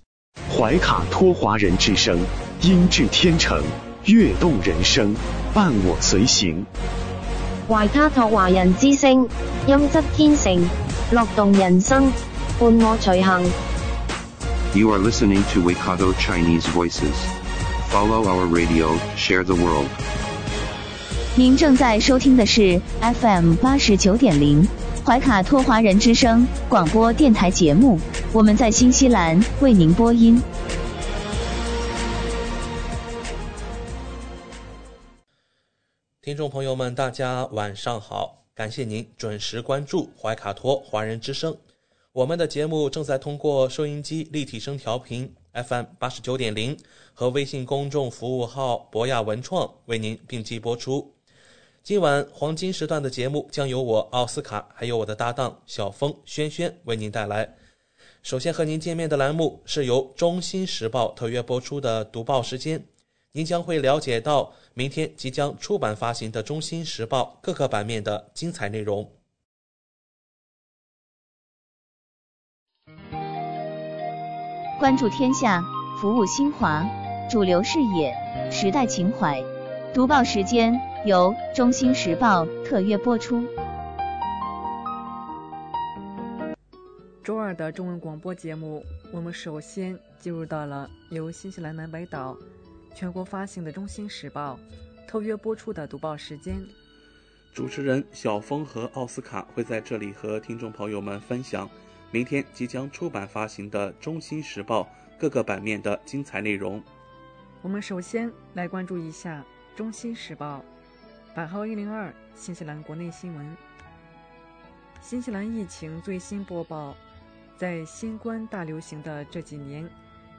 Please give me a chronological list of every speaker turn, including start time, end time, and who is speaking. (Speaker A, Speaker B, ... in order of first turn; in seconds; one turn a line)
Speaker A: 0.5-6.7
Speaker B: 7.7-13.5
Speaker C: 14.7-20.0
Speaker D: 21.4-30.5
Speaker E: 36.2-41.6
Speaker E: 42.1-51.2
Speaker E: 51.8-57.6
Speaker E: 58.2-69.2
Speaker D: 74.8-83.5
Speaker F: 87.2-92.4
Speaker F: 92.9-96.7
Speaker E: 97.5-106.9
Speaker F: 107.6-110.7
Speaker F: 111.3-113.6
Speaker F: 115.0-117.0
Speaker F: 117.6-119.9